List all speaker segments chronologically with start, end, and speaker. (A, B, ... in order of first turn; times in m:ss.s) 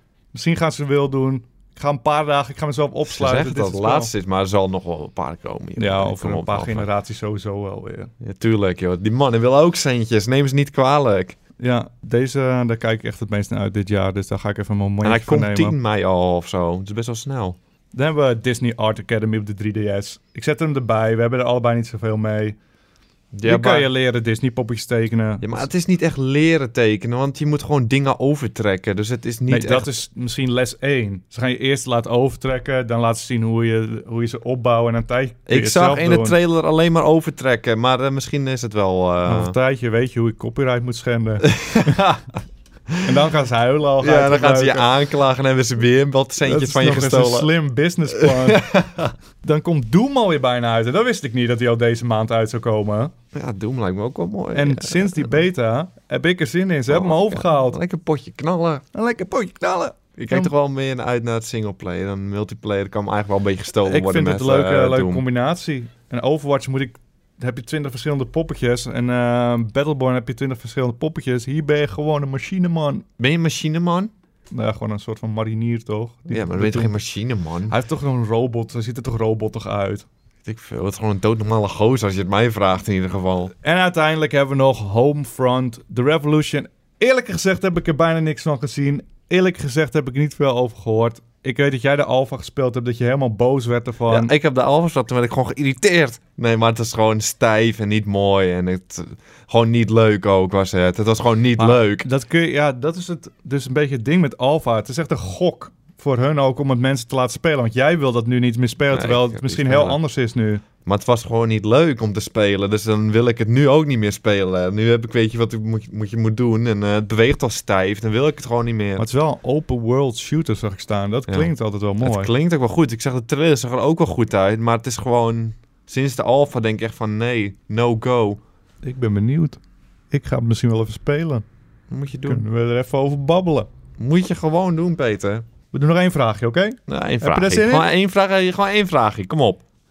0:00.3-0:04.1 A
0:03.0-0:06.9 B
0:05.8-0:08.1 A
0:08.2-0:11.4 B
0:11.6-0:15.8 A
0:15.0-0:17.6 B
0:17.9-0:22.6 A
0:23.3-0:23.9 B
0:23.4-0:25.7 A
0:25.4-0:29.9 B
0:29.5-0:36.4 A
0:35.5-0:39.6 B
0:39.2-0:42.1 A
0:41.6-0:42.1 B
0:43.0-0:44.9 A
0:44.0-0:47.5 B
0:46.4-0:48.7 A
0:48.1-0:49.1 B
0:49.4-0:53.1 A
0:53.3-0:55.4 B
0:54.5-0:57.8 A
0:56.9-0:58.8 B
0:58.9-1:00.5 A
1:00.2-1:05.2 B
1:03.8-1:13.0 A
1:13.2-1:14.1 B
1:14.5-1:17.0 A
1:16.3-1:17.8 B
1:17.7-1:20.0 A
1:20.4-1:23.5 B
1:23.6-1:34.3 A
1:34.1-1:42.0 B
1:41.6-1:50.6 A
1:48.9-1:50.0 B
1:50.8-1:59.0 B
1:59.0-2:02.3 A
2:01.3-2:08.4 B
2:08.8-2:09.6 A
2:10.1-2:11.4 A
2:11.9-2:12.4 B
2:12.2-2:13.7 A
2:14.0-2:15.4 B
2:15.7-2:17.9 A
2:16.9-2:19.6 B